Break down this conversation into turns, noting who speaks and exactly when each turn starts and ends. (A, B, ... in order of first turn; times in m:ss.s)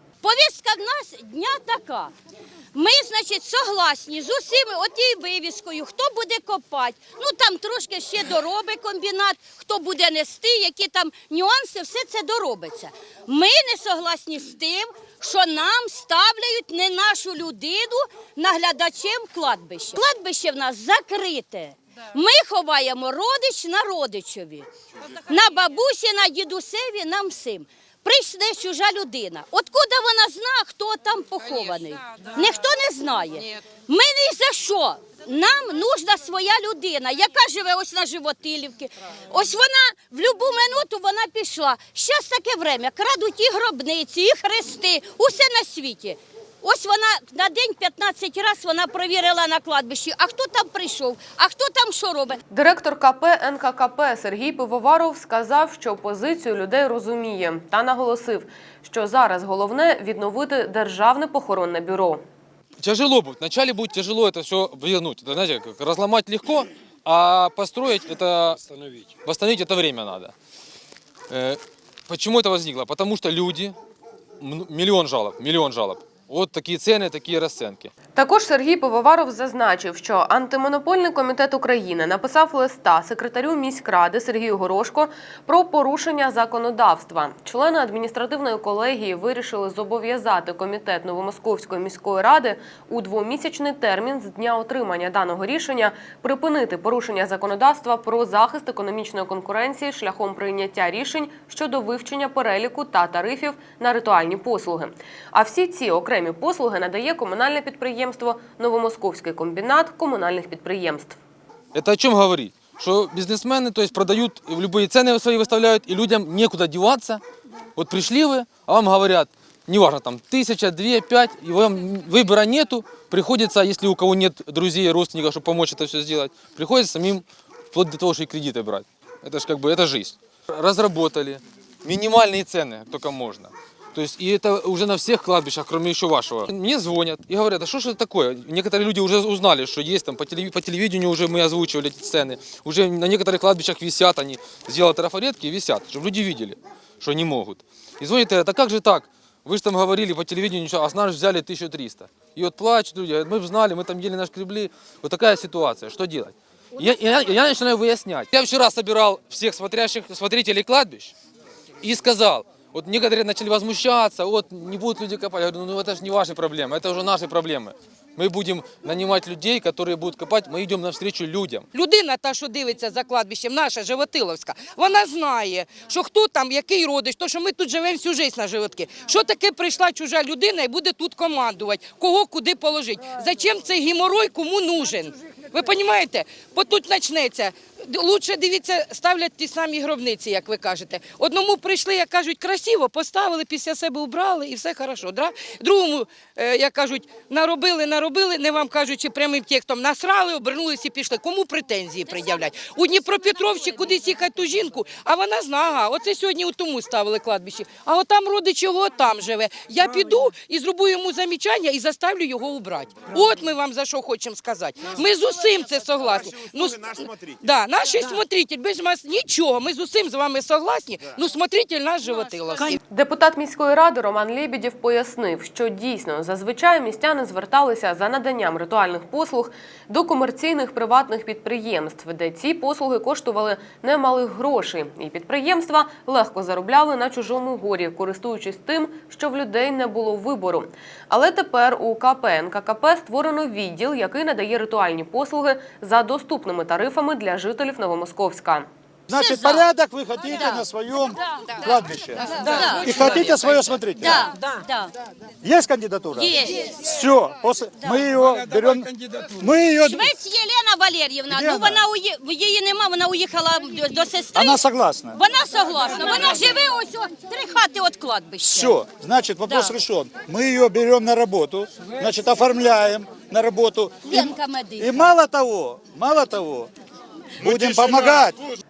0:00.2-0:02.1 A
0:02.7-0:24.7 A
0:25.3-0:52.4 A
0:52.5-1:02.2 B
1:02.8-1:08.6 C
1:09.2-1:10.3 C
1:11.3-1:13.8 C
1:14.4-1:17.9 C
1:18.1-1:51.2 B
1:51.7-1:57.2 C
1:57.8-2:41.1 C
2:41.8-2:51.6 C
2:51.7-3:42.8 D
3:42.9-4:08.7 B
4:09.1-4:14.2 E
4:09.1-4:09.7 A
4:10.4-4:10.6 A
4:12.2-4:14.9 A
4:15.4-4:20.1 E
4:16.1-4:16.8 A
4:17.8-4:18.1 A
4:19.8-4:28.8 A
4:21.3-4:21.8 E
4:24.3-4:25.2 E
4:28.5-4:36.7 E
4:29.4-4:29.7 A
4:34.0-4:35.1 A
4:37.4-4:38.4 E